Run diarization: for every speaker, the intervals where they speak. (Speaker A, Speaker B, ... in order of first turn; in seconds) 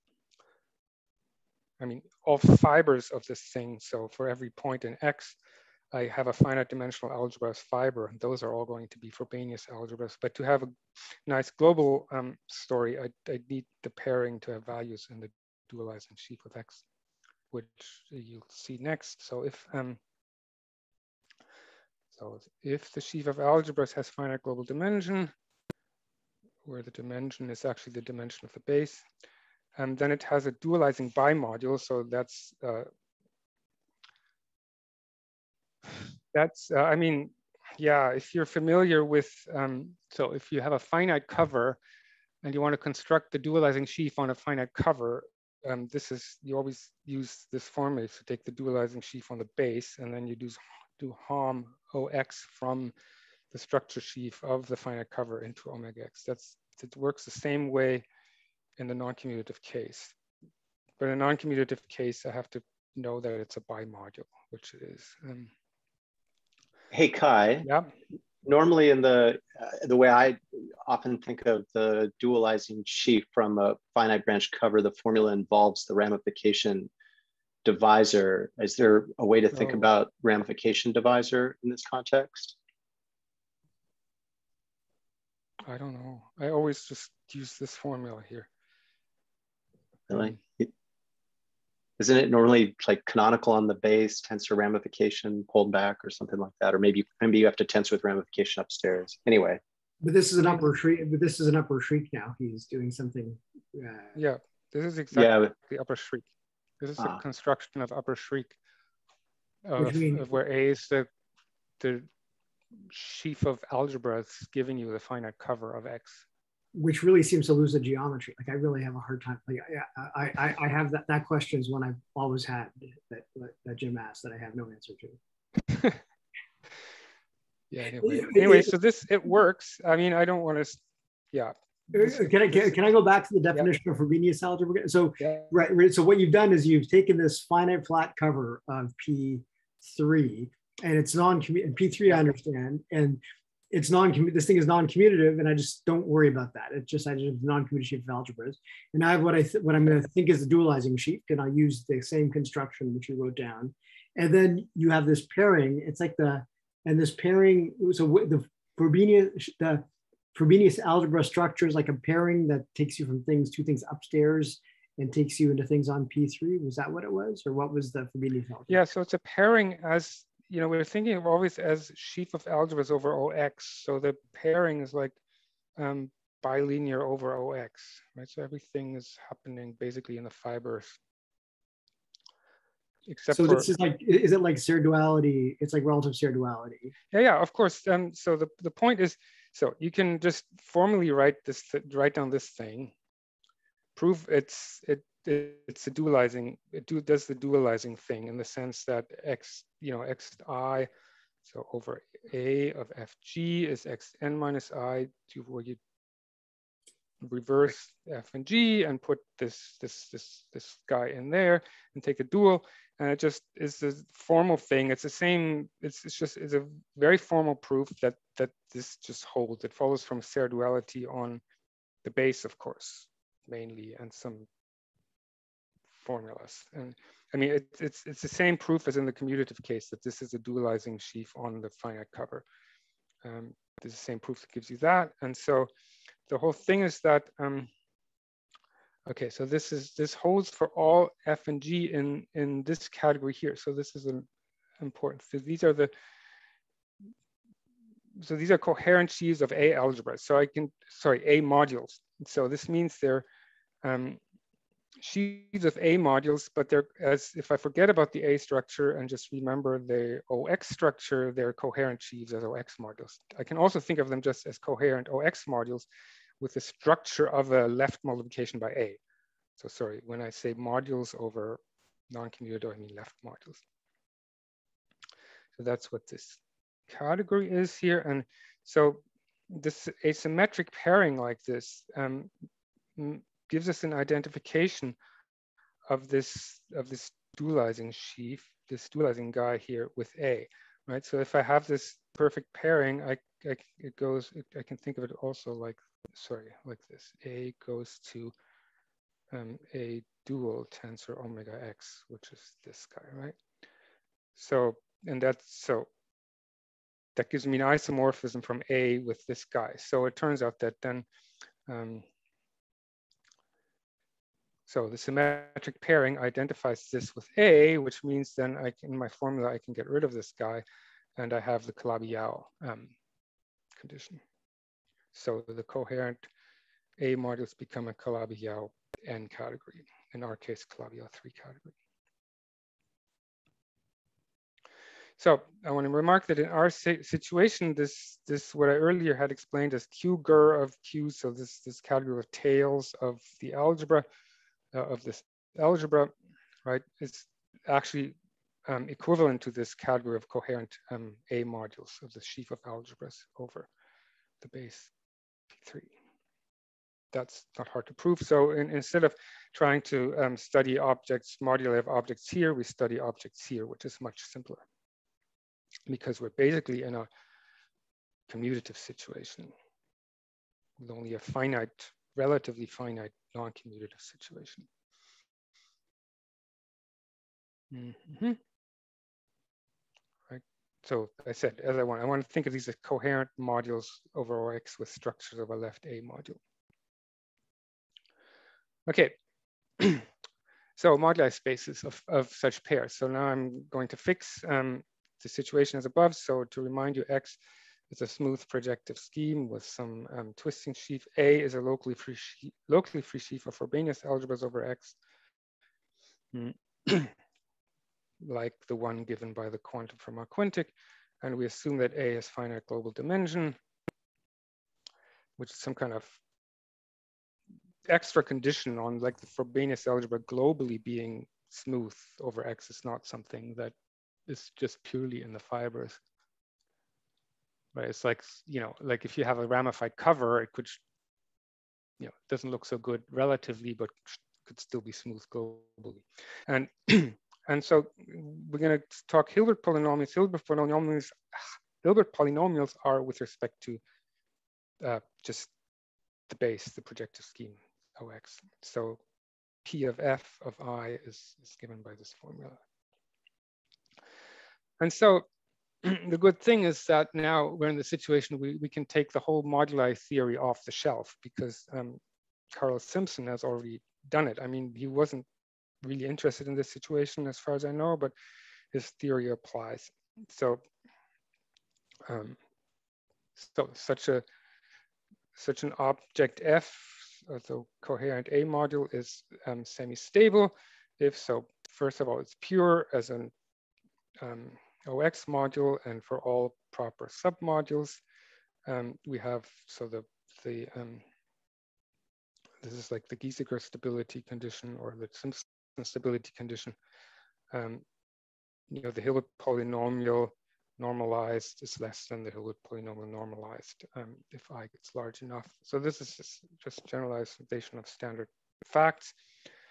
Speaker A: 1.8-5.4, 5.9-16.8, 17.5-20.0, 22.1-25.3, 26.6-29.1, 29.8-32.9, 36.3-41.8, 42.4-52.9, 53.5-58.0, 58.8-60.1, 61.0-65.5, 67.7-67.9, 79.5-79.9, 85.7-88.5, 90.1-90.4, 104.2-106.3, 106.8-108.6, 109.7-111.1, 111.8-112.1, 112.9-116.2, 125.7-126.0, 127.7-130.8, 131.3-132.7, 135.2-135.5, 168.7-175.2, 175.8-181.0, 183.1-183.7, 187.1-192.9, 194.0-200.9, 201.4-205.8, 207.2-221.4, 222.0-224.5, 225.9-232.4, 233.2-235.7, 236.3-237.7, 239.1-244.3, 244.8-245.9, 248.2-253.3, 253.8-254.2, 255.0-265.9, 266.4-269.0, 269.6-273.6, 275.6-282.3, 283.0-285.0, 285.9-298.3, 299.3-303.4, 304.4-305.9, 307.1-311.1, 311.7-312.1, 314.7-320.6, 321.2-322.9, 323.8-324.2, 325.1-326.2, 327.0-331.7, 335.2-344.1, 344.7-346.1, 346.6-353.7, 354.4-354.9, 355.5-355.9, 357.1-364.6, 365.9-367.1, 368.3-369.5, 370.8-374.7, 377.7-378.4, 380.3-386.4, 388.9-389.2, 389.8-390.1, 390.8-405.0, 406.3-407.1, 408.2-413.6, 415.4-416.2, 417.9-423.7, 424.3-426.0, 427.7-430.8, 432.0-443.8, 444.8-445.5, 446.3-449.0, 449.6-452.6, 454.8-455.3, 455.8-462.0, 462.5-465.3, 465.8-468.1, 468.7-470.6, 472.1-472.4, 473.4-474.2, 475.4-483.3, 484.2-488.0, 488.7-491.0, 492.6-496.8, 497.5-497.8, 498.7-509.1
Speaker B: 66.9-67.7, 68.4-76.9, 77.7-82.6, 90.1-90.7, 92.0-99.6, 105.1-105.5
Speaker C: 100.0-104.2, 109.8-110.2, 116.7-125.2, 128.0-128.7, 131.9-143.2, 143.7-168.8, 183.3-186.9